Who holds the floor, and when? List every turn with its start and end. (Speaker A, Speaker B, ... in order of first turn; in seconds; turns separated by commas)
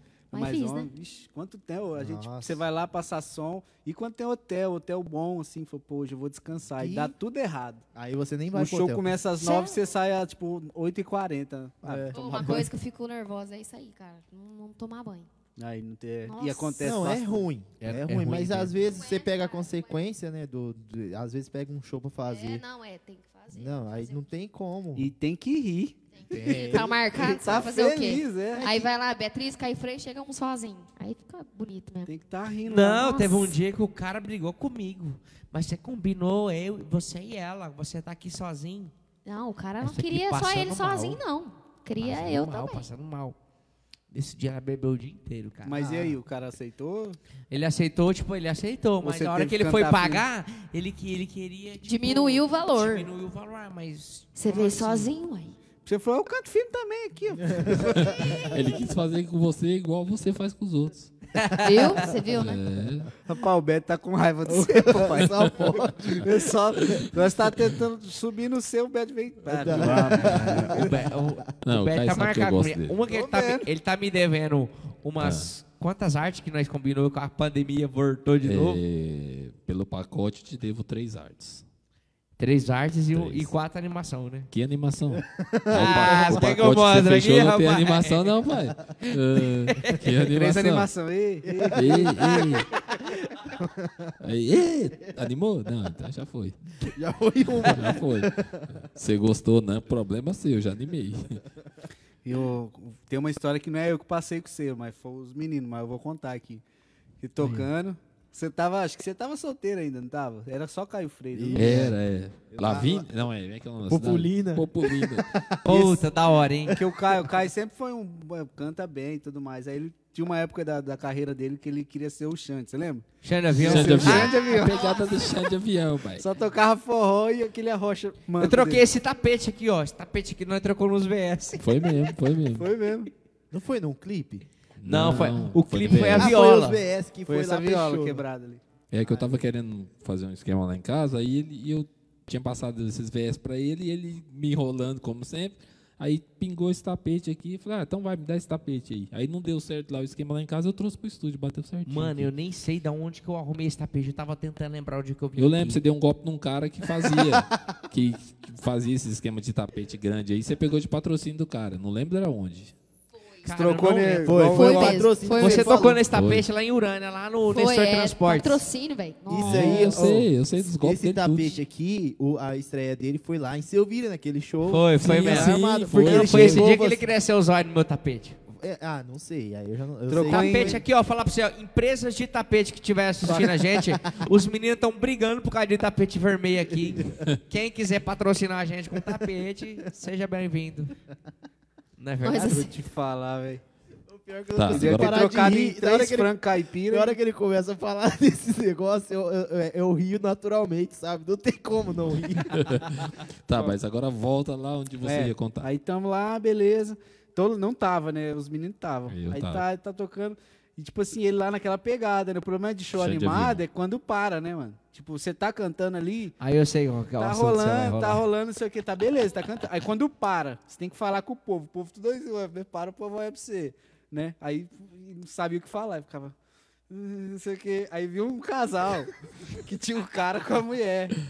Speaker A: 0.3-0.9, Speaker B: 0.3-7.8, Speaker C: 2.0-2.6, Speaker C: 6.7-7.1, Speaker C: 7.9-9.1, Speaker B: 8.5-12.7, Speaker A: 9.3-9.8, Speaker C: 11.8-12.7, Speaker A: 12.1-15.3, Speaker B: 15.6-17.5, Speaker A: 16.2-16.9, Speaker C: 16.8-22.6, Speaker D: 17.8-18.8, Speaker A: 18.9-19.8, Speaker A: 22.3-24.3, Speaker C: 23.5-25.1, Speaker B: 24.9-28.8, Speaker A: 26.2-32.1, Speaker C: 26.3-27.5, Speaker B: 32.1-33.2, Speaker D: 32.6-38.9, Speaker A: 33.0-33.5, Speaker A: 39.2-42.9, Speaker D: 39.8-41.2, Speaker D: 42.0-43.4, Speaker D: 44.1-45.8, Speaker B: 45.7-47.2, Speaker C: 45.8-46.2, Speaker D: 47.5-55.1, Speaker B: 49.0-50.2, Speaker A: 51.8-53.1, Speaker A: 54.4-55.5, Speaker B: 55.9-58.6, Speaker C: 57.5-58.3, Speaker E: 57.9-61.1, Speaker D: 61.4-62.0, Speaker A: 61.6-62.6, Speaker E: 62.3-63.1, Speaker B: 63.2-70.9, Speaker C: 64.5-66.5, Speaker C: 69.5-71.1, Speaker D: 69.8-78.8, Speaker E: 71.7-73.0, Speaker B: 73.1-73.7, Speaker E: 75.2-75.5, Speaker E: 78.4-81.6, Speaker D: 82.4-84.5, Speaker E: 83.1-83.5, Speaker E: 84.5-90.9, Speaker C: 85.1-86.5, Speaker D: 85.7-88.3, Speaker D: 89.0-90.2, Speaker B: 90.2-92.8, Speaker C: 91.4-94.2, Speaker E: 91.7-92.7, Speaker E: 94.2-96.6, Speaker C: 96.8-98.9, Speaker E: 97.7-101.4, Speaker B: 102.2-106.6, Speaker B: 107.2-111.9, Speaker C: 111.3-112.0, Speaker E: 111.5-115.3, Speaker C: 112.5-113.1, Speaker C: 113.9-116.0, Speaker D: 115.7-116.8, Speaker C: 116.7-117.3, Speaker B: 116.7-125.1, Speaker D: 123.2-124.5, Speaker E: 123.6-126.3, Speaker B: 126.2-128.8, Speaker D: 128.4-131.6, Speaker E: 131.6-132.7, Speaker B: 132.6-133.1, Speaker C: 133.5-134.5, Speaker E: 134.8-136.3, Speaker D: 134.8-136.8, Speaker C: 135.9-138.2, Speaker B: 137.3-138.6, Speaker E: 138.9-152.3, Speaker D: 151.9-155.8, Speaker E: 155.4-162.7, Speaker C: 156.9-157.7, Speaker D: 163.4-168.6, Speaker B: 163.5-165.0, Speaker C: 164.3-166.0, Speaker A: 164.6-165.9, Speaker E: 166.1-166.5, Speaker A: 167.4-170.1, Speaker C: 169.3-177.1, Speaker E: 169.4-171.6, Speaker D: 174.7-178.4, Speaker E: 175.0-176.7, Speaker C: 178.5-180.8, Speaker B: 180.1-180.8, Speaker D: 180.3-190.9, Speaker C: 183.3-184.3, Speaker D: 192.0-192.7, Speaker A: 192.2-192.7, Speaker B: 192.4-193.6, Speaker C: 194.1-203.1, Speaker E: 194.5-195.2, Speaker B: 194.7-197.2, Speaker E: 202.5-205.7, Speaker B: 205.0-216.3, Speaker E: 209.1-209.7, Speaker E: 212.9-213.6, Speaker D: 216.4-218.2, Speaker B: 217.2-226.3, Speaker B: 226.9-231.2